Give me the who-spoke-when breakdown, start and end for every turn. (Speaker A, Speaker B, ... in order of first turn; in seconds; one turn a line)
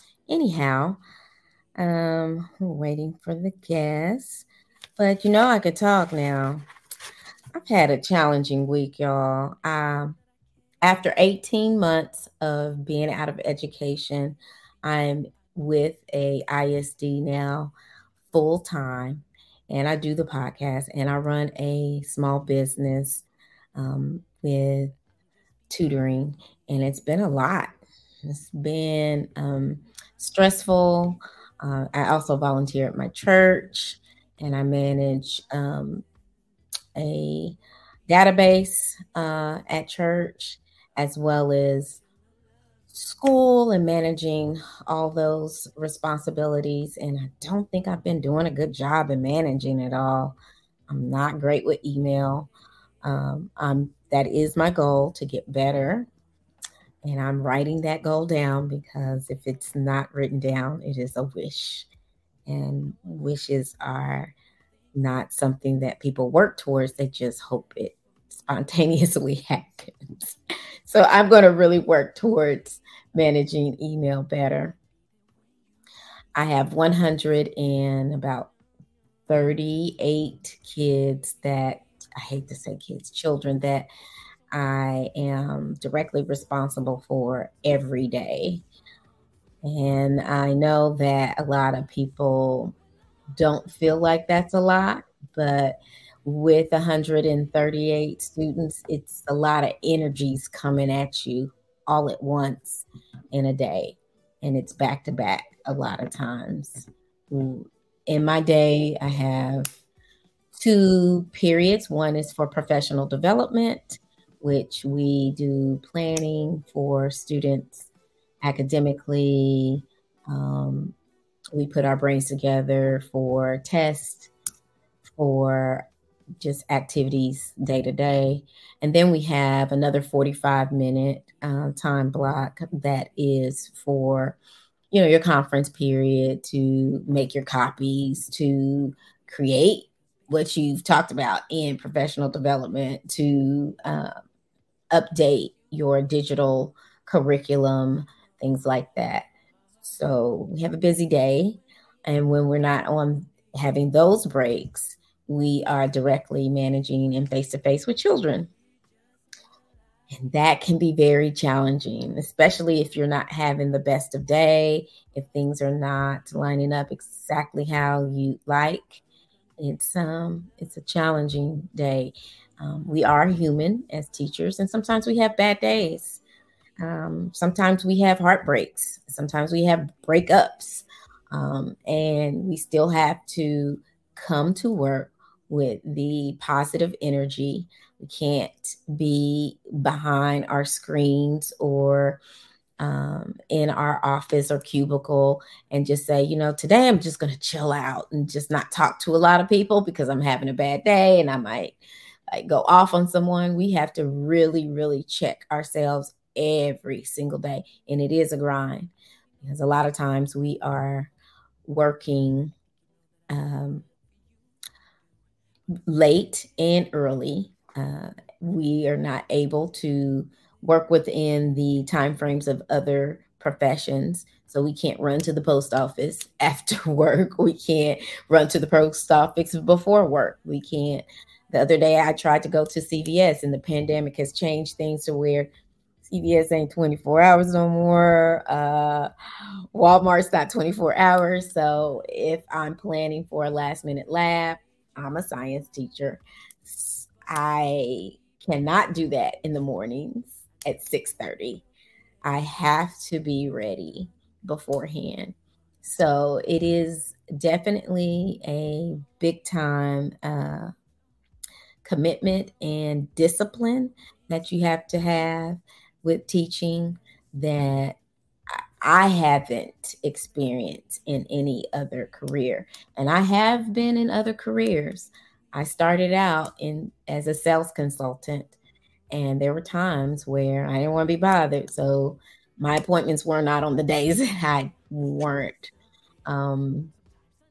Speaker A: 0.3-1.0
Speaker A: 1.8-4.5
Speaker A: 5.0-6.6
Speaker A: 7.5-10.2
Speaker A: 10.8-17.7
Speaker A: 18.3-23.2
Speaker A: 23.8-24.9
Speaker A: 25.7-36.0
Speaker A: 37.0-37.6
Speaker A: 38.1-42.0
Speaker A: 42.9-50.4
Speaker A: 50.9-52.5
Speaker A: 53.0-56.1
Speaker A: 57.0-61.9
Speaker A: 62.5-64.3
Speaker A: 64.9-74.8
Speaker A: 76.3-78.5
Speaker A: 79.3-83.9
Speaker A: 84.5-88.6
Speaker A: 89.6-92.7
Speaker A: 93.4-109.8
Speaker A: 110.5-117.9
Speaker A: 118.4-120.9
Speaker A: 121.5-124.3
Speaker A: 125.2-125.9
Speaker A: 126.4-134.4
Speaker A: 134.9-144.1
Speaker A: 144.9-149.3
Speaker A: 149.8-158.5
Speaker A: 160.1-169.0
Speaker A: 169.6-176.2
Speaker A: 176.8-192.2
Speaker A: 192.8-201.8
Speaker A: 202.3-208.9
Speaker A: 209.4-211.1
Speaker A: 211.6-212.5
Speaker A: 213.3-213.8
Speaker A: 215.9-235.5
Speaker A: 236.1-239.1
Speaker A: 239.7-251.6
Speaker A: 252.2-260.7
Speaker A: 261.8-268.0
Speaker A: 268.5-278.6
Speaker A: 279.1-285.7
Speaker A: 286.2-286.9